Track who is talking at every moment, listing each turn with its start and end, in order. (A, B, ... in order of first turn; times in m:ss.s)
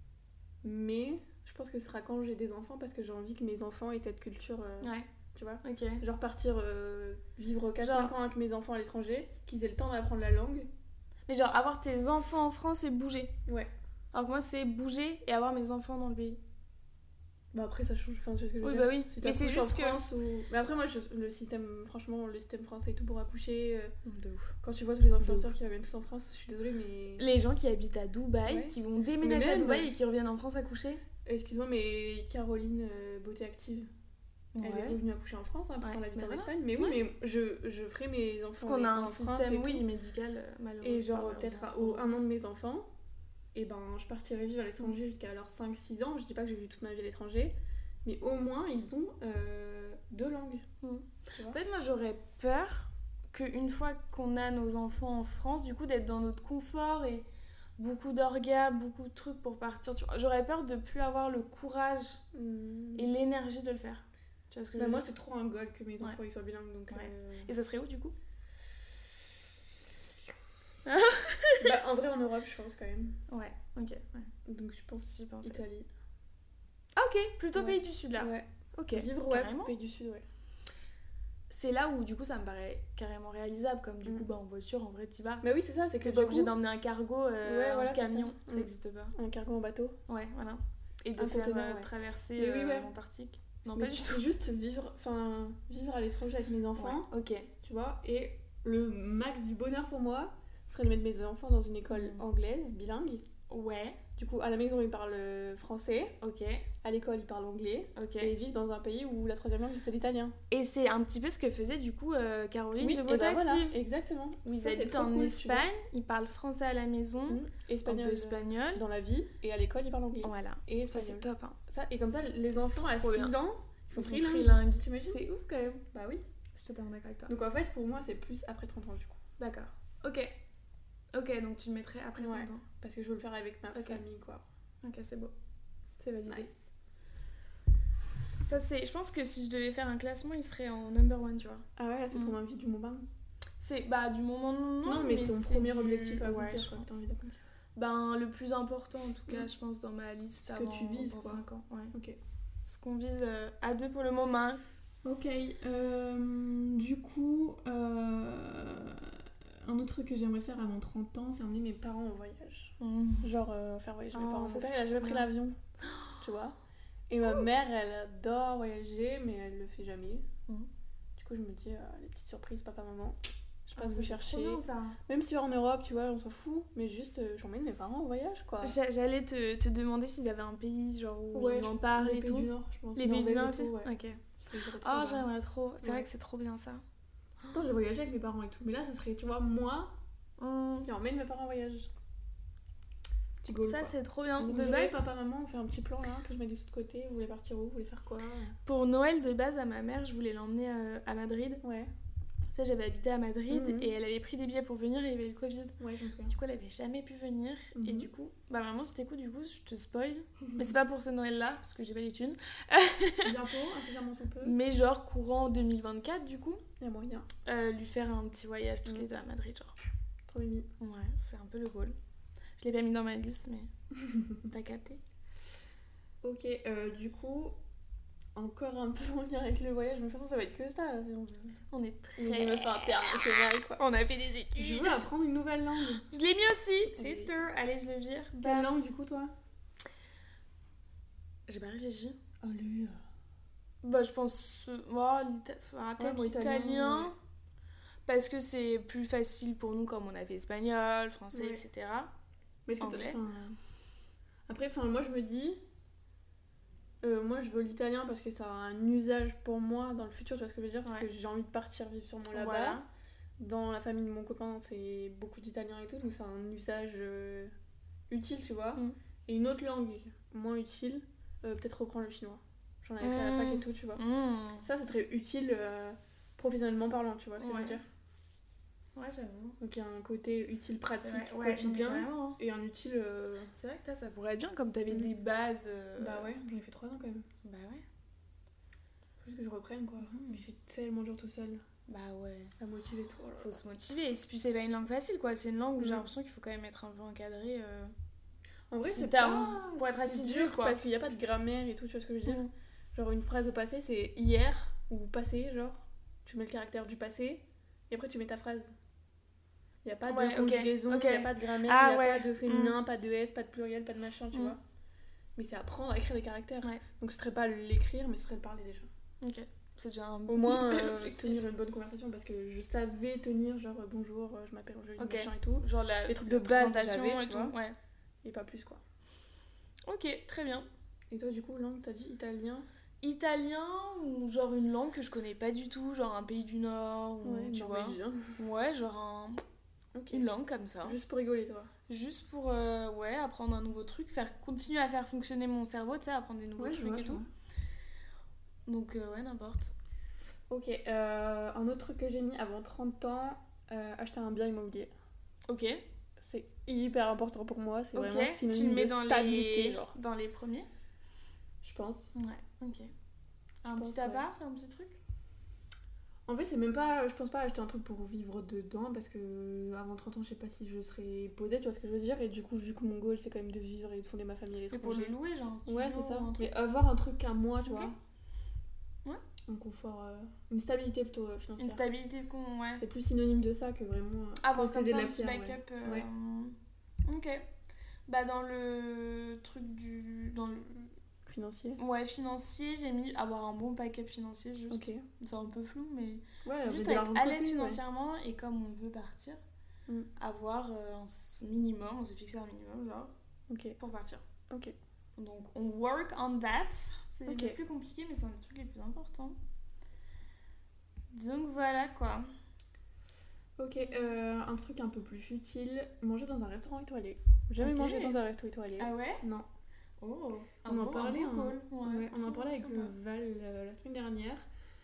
0:00.6-0:10.7 A
0:04.8-0:05.1 B
0:05.6-0:06.0 B
0:07.8-0:08.1 B
0:11.3-0:13.4 B
0:13.5-0:13.7 A
0:14.1-0:16.4 B
0:17.5-0:23.9 A
0:18.6-0:20.0 B
0:24.0-0:24.5 B
0:24.6-0:27.3 A
0:25.2-0:25.5 B
0:27.2-0:31.0 B
0:28.5-0:29.9 A
0:31.2-0:33.9 A
0:34.6-0:35.0 B
0:34.6-0:39.9 A
0:35.8-0:37.0 B
0:38.6-0:42.1 B
0:40.8-0:42.9 A
0:43.5-0:50.6 A
0:50.8-0:57.3 B
0:51.3-0:51.6 A
0:57.8-1:02.2 B
1:02.3-1:03.1 A
1:03.0-1:05.1 B
1:04.8-1:07.5 A
1:06.9-1:08.2 B
1:10.8-1:11.8 B
1:11.6-1:13.2 A
1:13.3-1:14.3 B
1:14.4-1:15.9 A
1:15.0-1:15.6 B
1:17.0-1:19.7 B
1:17.5-1:20.3 A
1:21.5-1:25.4 B
1:25.4-1:26.6 A
1:26.0-1:29.2 B
1:27.4-1:30.0 A
1:30.1-1:34.3 B
1:31.2-1:32.9 A
1:33.8-1:37.1 A
1:36.8-1:37.5 B
1:37.6-1:43.2 A
1:41.9-1:42.2 B
1:43.5-1:44.0 B
1:44.2-1:46.2 A
1:46.2-1:46.7 B
1:46.8-1:50.4 A
1:48.0-1:48.4 B
1:50.5-1:53.8 B
1:52.8-1:55.7 A
1:54.5-1:58.8 B
1:57.3-2:05.2 A
2:00.2-2:01.6 B
2:02.6-2:03.4 B
2:04.0-2:05.8 B
2:05.9-2:06.2 A
2:06.6-2:07.3 B
2:07.3-2:09.2 A
2:09.4-2:10.3 B
2:11.1-2:12.7 B
2:12.2-2:14.4 A
2:13.7-2:14.0 B
2:14.8-2:15.3 B
2:16.0-2:16.5 B
2:16.3-2:16.6 A
2:18.4-2:22.4 B
2:21.8-2:23.1 A
2:23.6-2:27.0 B
2:24.8-2:27.4 A
2:27.8-2:31.9 B
2:30.4-2:32.2 A
2:32.7-2:34.6 B
2:35.0-2:45.6 A
2:42.8-2:43.3 B
2:44.1-2:45.3 B
2:46.2-2:46.6 A
2:47.1-2:50.3 A
2:51.2-2:58.8 A
2:53.8-2:55.0 B
2:58.6-3:06.8 B
3:01.3-3:05.3 A
3:05.8-3:06.1 A
3:07.5-3:10.0 A
3:10.4-3:10.9 B
3:10.8-3:11.9 A
3:13.4-3:18.6 A
3:13.6-3:15.0 B
3:18.7-3:21.6 B
3:21.6-3:21.9 A
3:22.5-3:25.8 B
3:23.5-3:23.9 A
3:25.8-3:26.4 A
3:26.3-3:33.4 B
3:27.8-3:28.1 A
3:33.2-3:34.6 A
3:34.4-3:36.6 B
3:36.8-3:37.3 A
3:37.4-3:39.8 B
3:40.3-3:40.7 A
3:40.8-3:42.0 B
3:42.6-3:43.7 B
3:44.0-3:44.3 A
3:44.4-3:45.0 B
3:46.2-3:47.6 A
3:48.4-3:51.6 A
3:51.7-3:55.0 B
3:52.2-3:53.8 A
3:54.6-3:56.0 A
3:56.0-3:58.7 B
3:56.9-3:57.3 A
3:58.4-3:59.3 A
4:01.5-4:02.2 B
4:02.4-4:03.0 A
4:03.8-4:07.2 B
4:06.0-4:07.1 A
4:08.1-4:12.1 B
4:11.3-4:11.6 A
4:12.7-4:13.6 A
4:12.8-4:13.2 B
4:14.5-4:15.6 A
4:17.0-4:22.8 A
4:22.3-4:22.9 B
4:23.4-4:27.5 A
4:28.1-4:34.0 A
4:33.0-4:34.7 B
4:34.6-4:37.8 A
4:37.4-4:37.8 B
4:39.0-4:39.6 B
4:39.6-4:43.5 A
4:41.0-4:42.4 B
4:43.6-4:46.4 B
4:46.0-4:47.3 A
4:47.4-4:47.8 B
4:49.2-4:51.6 A
4:50.0-4:50.4 B
4:51.9-4:52.5 B
4:52.6-4:53.6 A
4:53.4-4:57.9 B
4:55.8-4:56.1 A
4:58.7-5:08.7 A
4:58.8-5:00.8 B
5:02.3-5:02.5 B
5:09.8-5:14.6 A
5:10.1-5:12.8 B
5:15.4-5:18.9 A
5:19.2-5:21.4 B
5:20.3-5:27.6 A
5:25.0-5:27.8 B
5:28.2-5:28.8 A
5:29.9-5:30.7 B
5:31.1-5:32.7 A
5:33.0-5:39.4 B
5:37.2-5:38.4 A
5:39.9-5:40.3 A
5:40.1-5:41.0 B
5:40.8-5:41.7 A
5:41.9-5:47.2 B
5:46.6-5:47.3 A
5:48.7-5:49.7 B
5:50.5-5:54.9 A
5:55.5-5:55.8 B
5:56.2-5:59.9 A
5:58.0-6:00.7 B
6:01.6-6:02.1 A
6:02.2-6:02.9 B
6:03.6-6:05.0 B
6:03.7-6:04.3 A
6:06.3-6:17.9 A
6:14.7-6:16.5 B
6:17.6-6:17.9 B
6:19.5-6:21.8 A
6:21.6-6:22.8 B
6:22.8-6:26.1 A
6:24.4-6:27.5 B
6:28.1-6:30.8 B
6:31.3-6:31.8 A
6:31.8-6:39.4 B
6:34.7-6:35.0 A
6:36.4-6:37.8 A
6:40.2-6:43.1 B
6:43.5-6:43.8 A
6:43.8-6:44.3 B
6:44.5-6:44.8 A
6:45.2-6:49.4 B
6:47.3-6:47.6 A
6:51.1-6:52.3 B
6:53.6-6:59.5 A
6:53.8-6:54.1 B
6:57.6-6:58.2 B
6:58.8-6:59.2 B
7:00.0-7:02.9 B
7:00.7-7:04.4 A